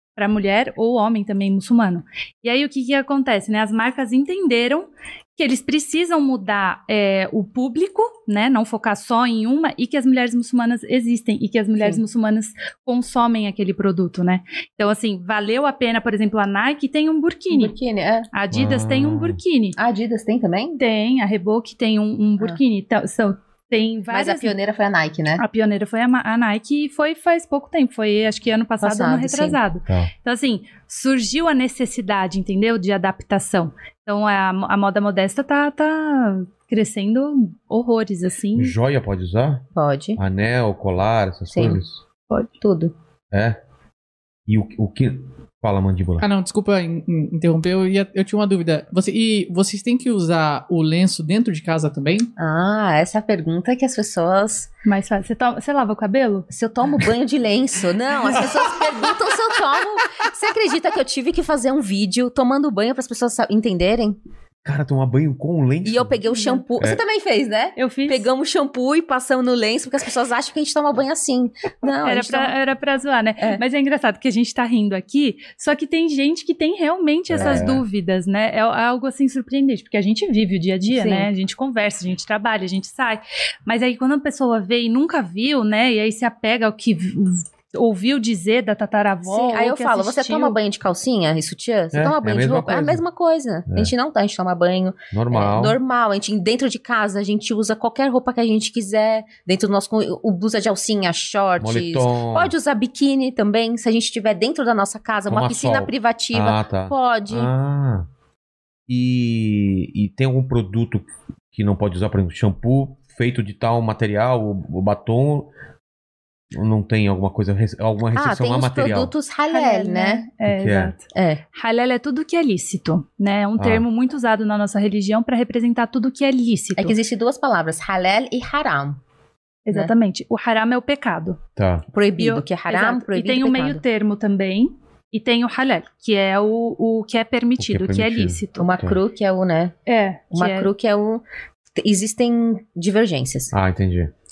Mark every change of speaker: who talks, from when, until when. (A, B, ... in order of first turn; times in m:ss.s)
0:00.2-0:17.7 A
0:17.5-0:18.3 B
0:18.3-0:19.8 A
0:18.5-0:19.4 C
0:19.8-0:20.8 B
0:20.7-0:24.5 A
0:24.1-0:25.4 B
0:25.4-0:38.8 A
0:28.8-0:29.6 B
0:38.5-0:39.6 C
0:39.7-0:40.2 B
0:40.2-0:42.0 C
0:41.5-0:41.8 B
0:42.6-0:42.9 B
0:43.3-0:43.6 C
0:44.5-0:46.2 C
0:46.2-0:52.3 D
0:52.4-0:54.7 B
0:54.8-0:56.4 A
0:56.5-1:04.2 B
1:04.6-1:06.2 C
1:05.8-1:12.5 B
1:06.2-1:06.6 A
1:07.8-1:08.3 A
1:12.0-1:30.6 A
1:17.3-1:17.8 C
1:17.4-1:17.7 B
1:20.9-1:21.3 B
1:29.2-1:47.5 B
1:31.9-1:33.0 C
1:35.1-1:35.8 C
1:41.6-1:42.5 C
1:45.3-1:48.1 C
1:48.9-1:55.5 C
1:56.5-1:59.1 C
1:58.1-2:00.2 B
1:59.5-2:06.9 A
2:00.4-2:00.9 C
2:01.1-2:01.4 B
2:03.6-2:03.8 C
2:06.8-2:09.0 B
2:09.6-2:11.4 A
2:11.6-2:11.8 C
2:11.9-2:13.8 B
2:12.2-2:18.7 A
2:17.6-2:19.0 C
2:18.6-2:19.7 B
2:19.9-2:20.7 A
2:20.3-2:21.2 B
2:21.7-2:23.5 B
2:23.5-2:24.1 C